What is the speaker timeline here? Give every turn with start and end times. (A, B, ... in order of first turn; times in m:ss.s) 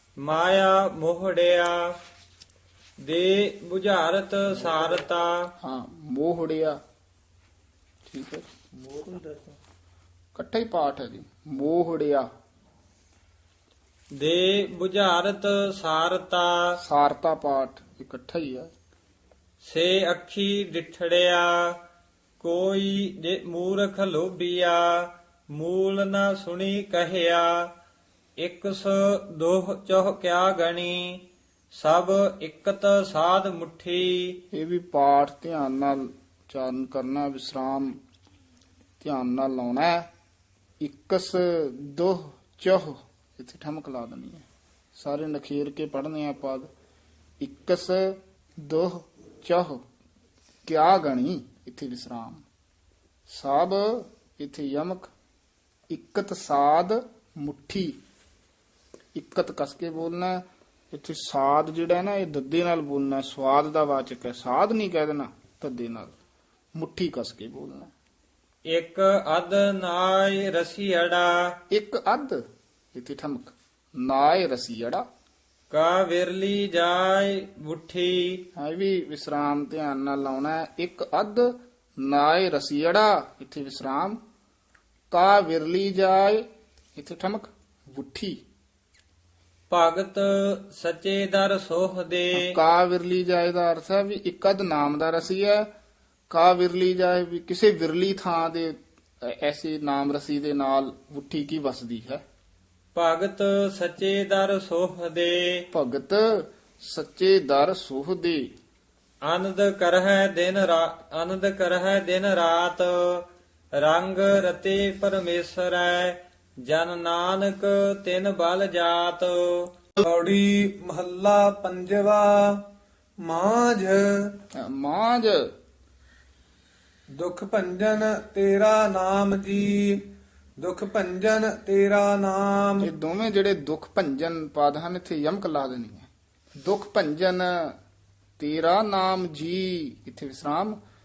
0:00.2-0:01.9 A
0:03.0-0:05.5 A
0:05.6-0:06.8 B
0:08.1-0:08.4 B
0:10.4-0:12.3 B
0:14.2-0:16.7 A
0:16.8-0:18.7 B
0:19.6-0:21.7 A
0:22.4-0:27.7 A
0:28.4-0:34.4 A
0:34.5-0:38.0 B
0:39.0-0:40.1 B
0:40.8-0:46.7 B
0:47.4-0:49.8 B
0:50.6-0:52.4 B
0:53.3-0:55.1 B
0:55.9-0:58.0 B
0:59.2-1:06.1 B
1:06.8-1:07.9 B
1:08.7-1:11.4 A
1:11.7-1:15.1 B
1:15.7-1:18.4 A
1:18.6-1:24.2 B
1:25.1-1:28.4 B
1:29.7-1:32.5 A
1:32.4-1:35.7 B
1:36.3-1:42.2 B
1:43.0-1:45.6 A
1:45.7-1:48.5 B
1:49.2-1:53.2 A
1:53.8-1:59.7 A
2:00.0-2:02.7 C
2:03.2-2:04.4 C
2:04.6-2:05.5 B
2:07.1-2:10.0 C
2:10.6-2:12.9 C
2:12.8-2:16.1 B
2:16.6-2:17.8 B
2:18.4-2:20.8 B